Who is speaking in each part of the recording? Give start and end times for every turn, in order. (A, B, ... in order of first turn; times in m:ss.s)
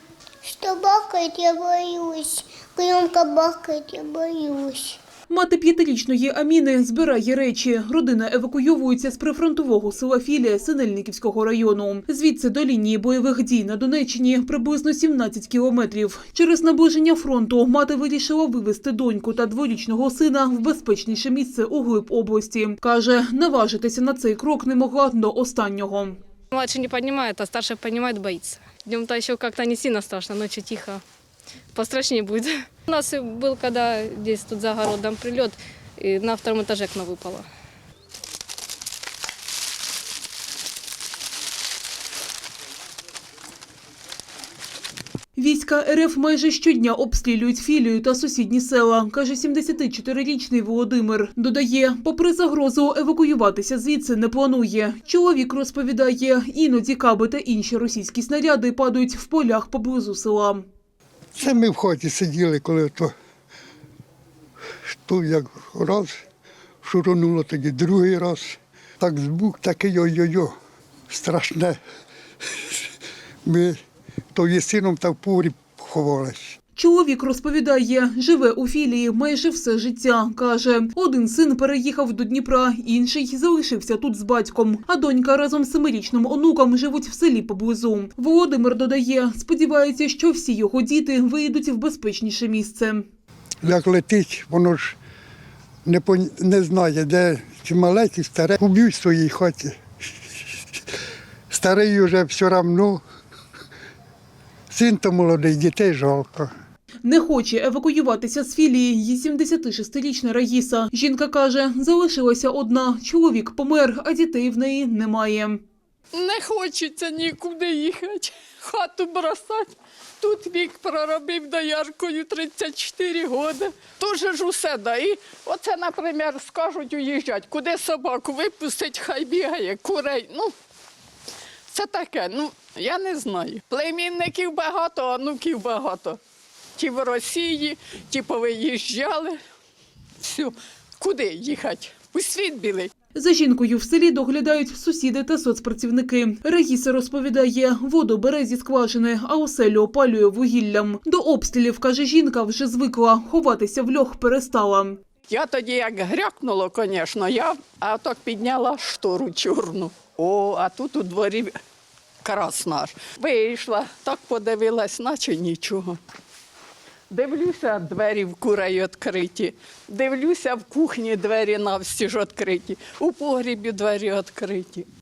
0:00.4-0:05.0 A
0:05.3-0:26.2 B
0:26.5-0:31.0 C
0:31.8-0:37.4 C
0:45.4-1:00.6 B
1:01.4-1:03.1 D
1:04.9-1:06.1 D
1:06.8-1:10.5 D
1:11.1-1:11.8 D
1:13.5-1:13.8 D
1:14.3-1:16.6 D
1:16.8-1:33.0 B
1:33.6-1:35.0 D
1:35.9-1:39.8 D
1:41.5-1:43.0 D
1:44.7-1:46.5 D
1:47.0-1:55.6 B
1:56.1-2:10.5 E
2:11.7-2:16.2 E
2:16.8-2:19.4 E
2:20.2-2:22.9 E
2:23.1-2:35.0 B
2:35.3-2:41.6 E
2:42.2-2:46.0 E
2:47.1-2:54.9 E